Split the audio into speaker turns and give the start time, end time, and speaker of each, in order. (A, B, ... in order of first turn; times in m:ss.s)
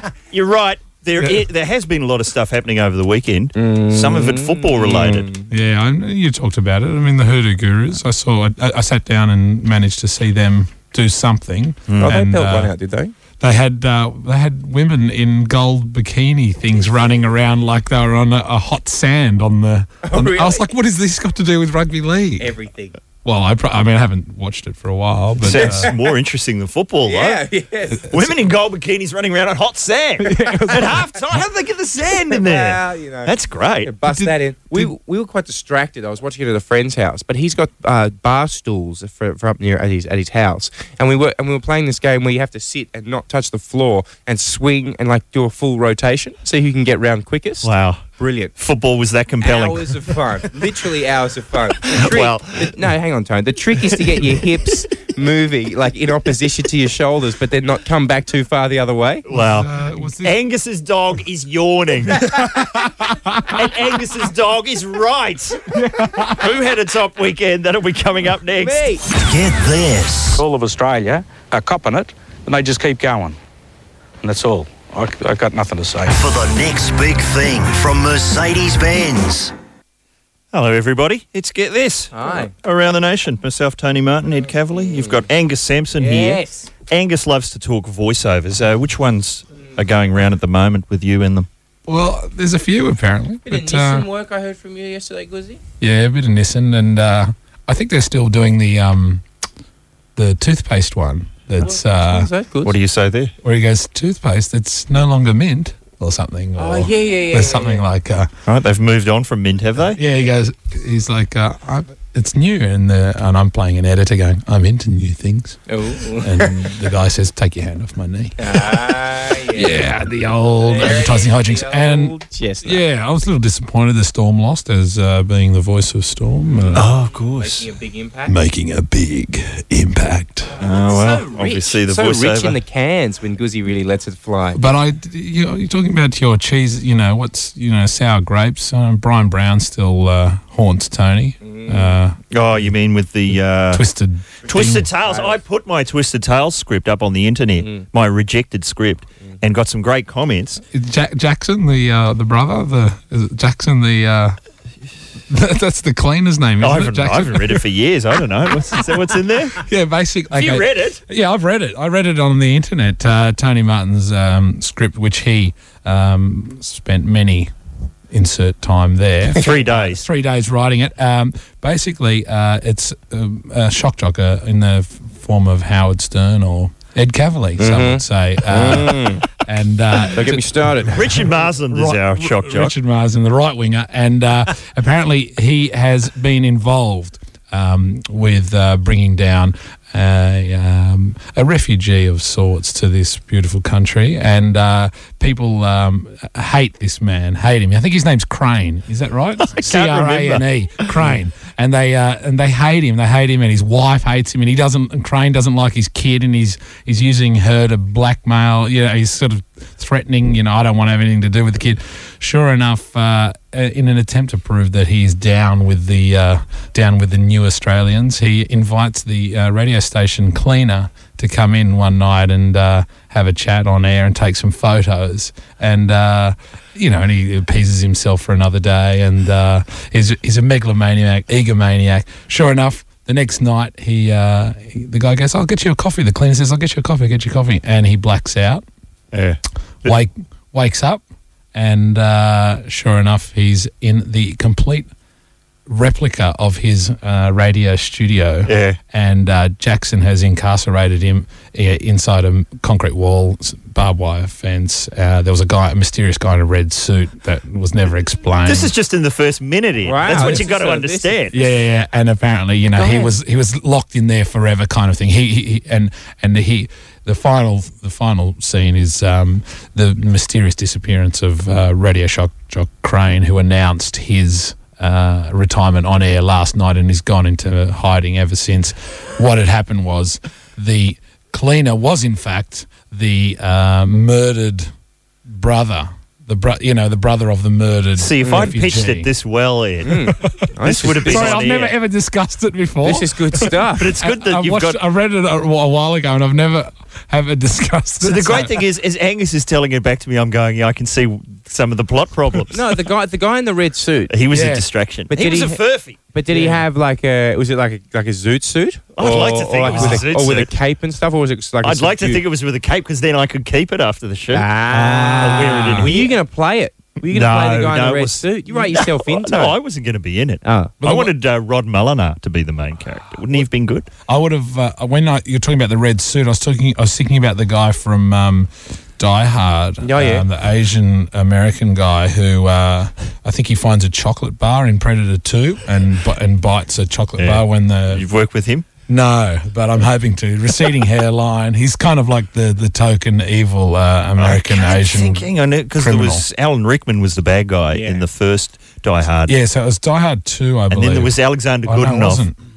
0:00.3-0:05.3 A
0:03.6-0:05.5 B
0:05.5-0:12.7 C
0:11.9-0:12.2 A
0:12.0-0:13.1 B
0:13.4-0:22.6 C
0:20.0-0:20.6 B
0:22.4-0:23.0 B
0:23.2-0:25.9 C
0:25.4-0:27.4 A
0:25.5-0:26.0 B
0:27.1-0:28.1 B
0:28.1-0:33.9 A
0:30.2-0:31.0 C
0:32.3-0:48.5 B
0:34.1-0:34.9 C
0:47.6-0:48.0 A
0:48.6-0:50.5 A
0:49.4-0:59.2 B
0:51.8-0:52.8 A
0:54.0-0:54.3 A
0:59.3-1:02.4 A
0:59.3-1:00.3 C
1:02.3-1:03.5 C
1:03.5-1:05.6 A
1:05.7-1:06.4 C
1:06.4-1:08.8 A
1:08.6-1:09.0 B
1:09.1-1:10.2 D
1:10.3-1:13.4 E
1:14.2-1:16.2 E
1:16.2-1:19.5 D
1:20.5-1:31.5 A
1:22.1-1:22.5 B
1:24.8-1:25.2 B
1:26.0-1:26.7 B
1:31.9-1:34.1 C
1:33.5-1:35.6 B
1:35.8-1:39.2 C
1:40.2-1:42.3 C
1:41.6-1:42.7 B
1:42.6-1:43.3 A
1:43.4-1:48.3 C
1:46.6-1:47.8 B
1:48.5-1:50.0 A
1:50.0-1:55.7 C
1:55.7-1:56.6 B
1:56.2-1:59.0 C
1:58.4-1:59.8 B
1:59.5-2:06.9 C
2:00.6-2:02.8 B
2:06.7-2:07.7 A
2:07.1-2:08.4 B
2:08.3-2:10.5 C
2:10.6-2:14.6 B
2:10.6-2:12.6 A
2:14.6-2:22.2 C
2:21.4-2:22.0 B
2:22.3-2:23.9 A
2:23.7-2:24.9 C
2:24.5-2:30.6 A
2:25.0-2:25.4 B
2:30.7-2:34.4 C
2:35.3-2:37.6 C
2:36.6-2:39.6 A
2:39.6-2:47.5 C
2:40.3-2:41.0 A
2:48.1-3:58.6 C
2:49.3-2:50.0 A
2:57.6-2:59.2 B
3:00.2-3:01.0 B
3:00.9-3:02.8 A
3:19.5-3:21.2 A
3:59.1-4:00.0 A
3:59.8-4:01.0 C
4:01.5-4:04.9 C
4:05.7-4:18.7 C
4:08.5-4:08.8 A
4:18.5-4:21.4 A
4:19.8-4:21.2 B
4:20.1-4:20.4 C
4:21.3-4:44.7 C
4:22.8-4:23.1 B
4:45.3-4:49.1 C
4:48.0-4:51.8 A
4:48.2-4:48.5 B
4:49.8-4:51.5 B
4:50.2-4:53.5 C
4:52.8-4:53.9 B
4:53.7-4:54.8 A
4:54.0-4:58.6 C
4:58.0-5:02.6 A
5:02.5-5:04.1 B
5:04.1-5:06.0 A
5:04.3-5:04.7 C
5:05.1-5:12.2 B
5:06.3-5:06.6 C
5:09.0-5:10.5 A
5:09.6-5:10.0 C
5:11.6-5:14.5 A
5:14.3-5:19.6 B
5:14.7-5:15.9 C
5:15.2-5:16.1 A
5:17.1-5:23.9 A
5:20.4-5:20.8 B
5:20.8-5:21.1 C
5:24.1-5:38.0 C
5:29.8-5:30.2 B
5:37.2-5:38.7 A
5:38.9-5:46.2 C
5:44.2-5:49.4 A
5:47.7-5:48.1 B
5:49.3-5:52.4 C
5:50.7-5:52.3 A